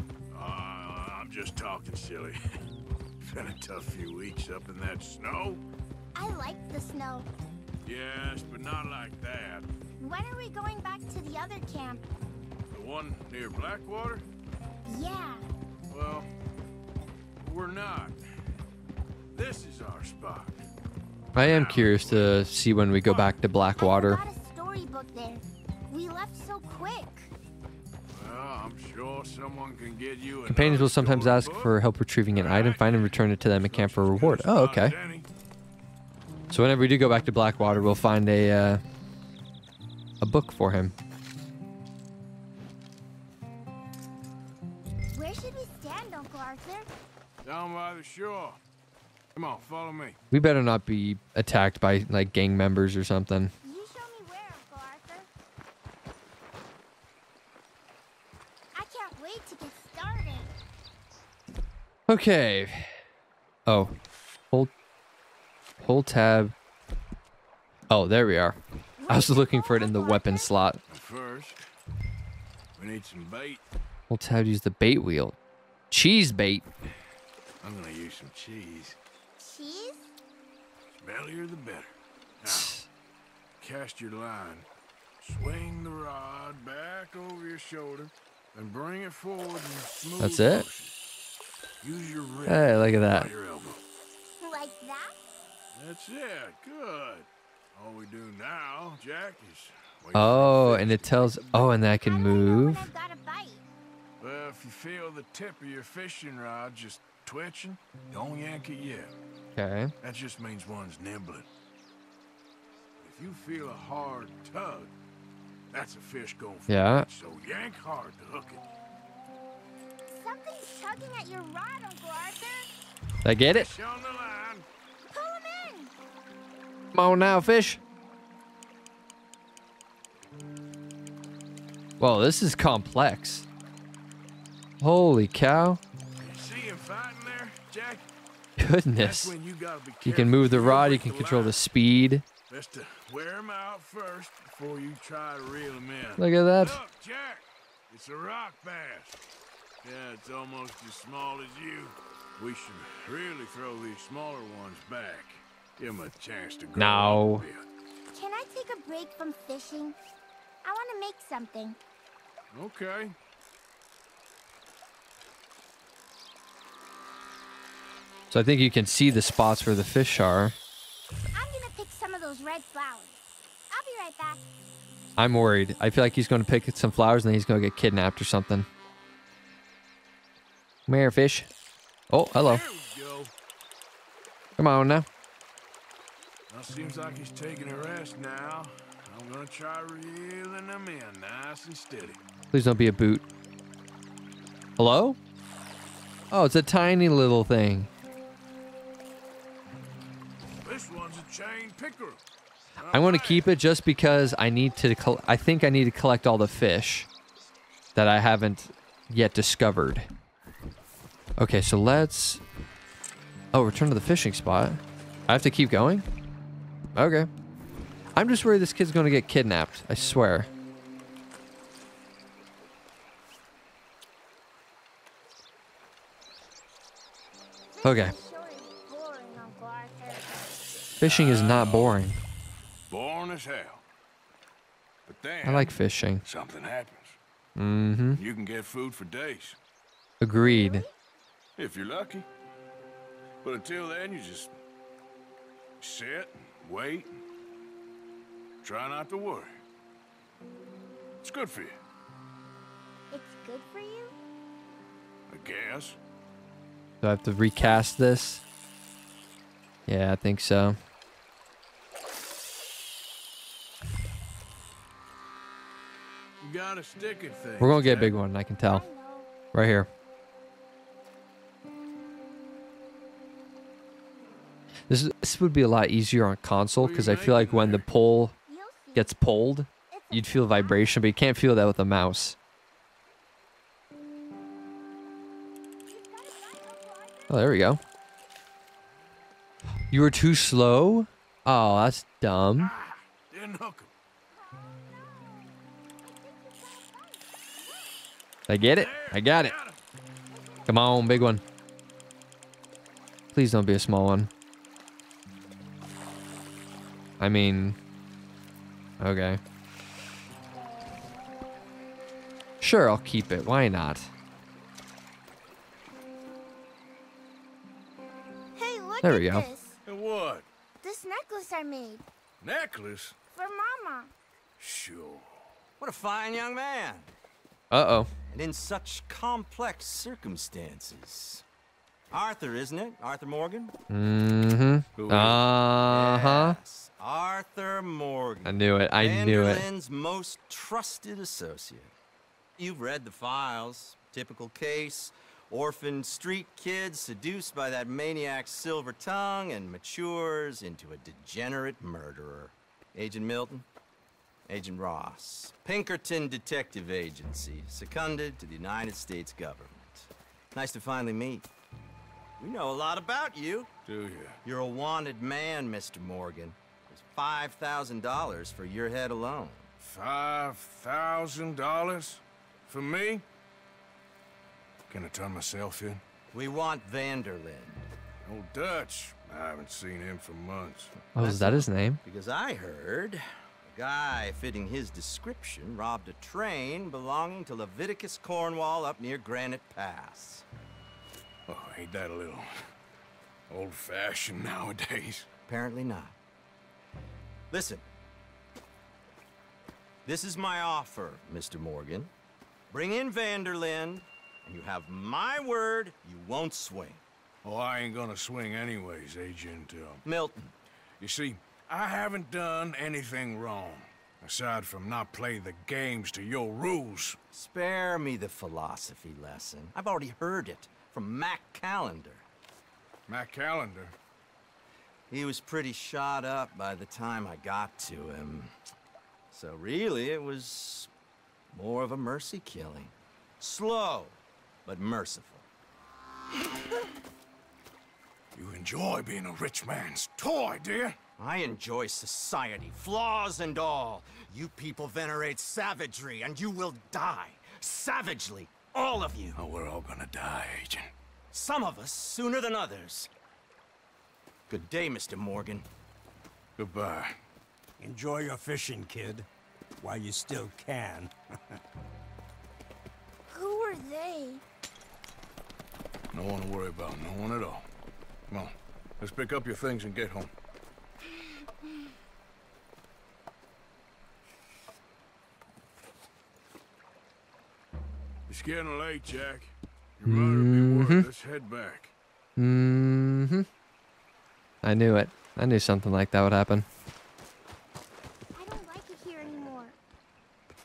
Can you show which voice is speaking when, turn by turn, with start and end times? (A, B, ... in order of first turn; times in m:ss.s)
0:00.3-0:02.4 A
0:03.2-0:05.6 A
0:06.2-0:07.3 B
0:07.8-0:09.7 A
0:10.0-0:12.1 B
0:12.7-0:14.3 A
0:14.9-0:15.5 B
0:15.9-0:16.3 A
0:17.4-0:18.2 A
0:19.3-0:20.6 A
0:21.4-0:24.2 C
0:21.4-0:22.4 A
0:23.0-0:27.3 B
0:28.1-0:31.8 A
0:30.5-0:35.0 C
0:32.3-0:35.3 A
0:36.5-0:38.8 C
0:40.2-0:40.9 C
0:45.1-0:46.9 B
0:47.4-0:48.6 A
0:49.4-0:50.2 A
0:50.3-0:53.5 C
0:53.6-0:55.3 B
0:58.8-1:00.5 B
1:02.1-1:02.9 C
1:03.7-1:03.9 C
1:05.8-1:06.6 C
1:07.9-1:08.6 C
1:09.0-1:10.6 B
1:09.1-1:10.8 C
1:10.9-1:11.6 A
1:12.8-1:13.6 A
1:14.1-1:15.4 C
1:15.9-1:16.7 C
1:17.6-1:19.0 A
1:19.4-1:20.1 B
1:21.0-1:22.8 A
1:22.4-1:22.9 C
1:23.6-1:24.7 A
1:25.2-1:30.9 A
1:30.2-1:30.7 C
1:31.8-1:33.8 A
1:32.5-1:33.3 C
1:34.4-1:35.2 B
1:35.8-1:41.7 A
1:40.1-1:42.9 C
1:42.0-1:43.6 B
1:44.2-1:49.1 A
1:49.6-1:49.9 C
1:50.0-1:51.5 A
1:53.0-1:54.9 A
1:55.7-1:58.6 A
1:56.7-1:57.1 C
2:00.1-2:02.7 B
2:03.2-2:03.7 C
2:03.4-2:04.7 A
2:05.1-2:05.9 B
2:06.9-2:07.8 C
2:12.0-2:13.5 C
2:14.8-2:15.8 C
2:16.2-2:18.1 A
2:18.6-2:19.3 C
2:19.0-2:21.6 A
2:20.0-2:22.2 C
2:22.5-2:29.2 A
2:26.2-2:26.8 C
2:29.8-2:37.6 A
2:36.8-2:37.5 C
2:38.1-2:40.0 B
2:40.6-2:41.8 B
2:42.5-2:43.2 A
2:48.3-2:50.6 C
2:51.4-2:53.2 B
2:53.7-2:54.4 B
2:55.2-2:58.7 C
3:00.9-3:01.5 C
3:02.1-3:02.6 C
3:02.4-3:03.3 A
3:04.6-3:05.1 C
3:06.5-3:12.2 A
3:12.5-3:13.2 C
3:14.8-3:15.2 C
3:16.3-3:17.9 C
3:20.6-3:22.2 A
3:22.8-3:23.5 A
3:22.9-3:27.1 C
3:28.0-3:30.1 C
3:31.4-3:32.4 C
3:33.5-3:36.0 C
3:37.0-3:37.3 C
3:38.2-3:40.5 C
3:47.7-3:50.5 B
3:47.8-3:48.2 C
3:51.0-3:52.2 C
3:51.0-3:52.0 A
3:52.9-3:53.8 A
3:55.1-3:57.2 A
3:55.4-3:56.2 C
3:57.6-3:58.2 C
3:58.2-3:59.6 A
4:00.2-4:00.9 C
4:00.4-4:00.9 B
4:01.6-4:02.3 A
4:03.4-4:04.5 A
4:05.8-4:07.1 A
4:08.6-4:09.6 A
4:11.2-4:11.8 A
4:13.1-4:14.1 B
4:15.3-4:16.0 A
4:17.0-4:18.4 C
4:19.9-4:20.8 C
4:26.4-4:28.1 A
4:27.6-4:28.9 C
4:28.6-4:29.4 B
4:29.5-4:29.9 C
4:34.9-4:38.3 C
4:36.8-4:37.8 A
4:38.5-4:39.2 B
4:39.0-4:42.4 C
4:39.9-4:41.1 B
4:45.9-4:47.6 B
4:47.3-4:47.8 C
4:49.9-4:52.7 C
4:52.6-4:53.9 A
4:54.3-4:57.4 B
4:58.5-4:59.6 C
4:58.7-4:59.8 A
5:00.7-5:01.4 C
5:03.3-5:04.3 C
5:07.2-5:07.8 C
5:09.0-5:09.4 C
5:12.6-5:14.1 C
5:18.6-5:19.8 B
5:19.0-5:19.5 C
5:19.9-5:20.5 A
5:20.8-5:22.0 B
5:22.4-5:23.2 A
5:23.3-5:24.1 B
5:24.6-5:25.5 A
5:25.8-5:27.1 D
5:27.7-5:28.1 C
5:28.3-5:31.4 D
5:32.1-5:33.7 D
5:33.9-5:36.6 C
5:35.0-5:35.4 A
5:35.8-5:41.9 D
5:38.4-5:39.6 C
5:42.6-5:53.6 D
5:54.5-6:01.5 D
6:02.4-6:03.7 D
6:03.9-6:04.4 A
6:04.4-6:09.7 D
6:09.8-6:13.2 A
6:14.9-6:16.0 A
6:16.3-6:17.8 D
6:18.2-6:21.0 A
6:21.2-6:22.0 C
6:21.2-6:30.4 D
6:31.5-6:32.5 A
6:33.5-6:35.3 A
6:35.5-6:36.2 D
6:37.5-6:37.8 D
6:40.0-6:42.1 D
6:42.7-6:47.0 D
6:47.4-6:50.0 A
6:50.0-6:50.5 D
6:51.0-6:57.2 A
6:57.3-7:02.2 D
7:03.1-7:03.9 A
7:05.1-7:08.5 D
7:09.3-7:10.9 D
7:11.5-7:15.5 D
7:18.4-7:21.0 A
7:21.2-7:29.4 D
7:29.4-7:30.9 A
7:31.3-7:33.1 D
7:34.5-7:35.7 D
7:36.6-7:37.2 A
7:37.8-7:39.3 E
7:39.8-7:41.1 E
7:43.3-7:44.4 B
7:46.1-7:47.6 A
7:48.3-7:50.3 A
7:58.3-8:01.9 A
8:00.1-8:01.1 C
8:02.4-8:03.5 C
8:04.6-8:06.7 C
8:08.4-8:09.8 B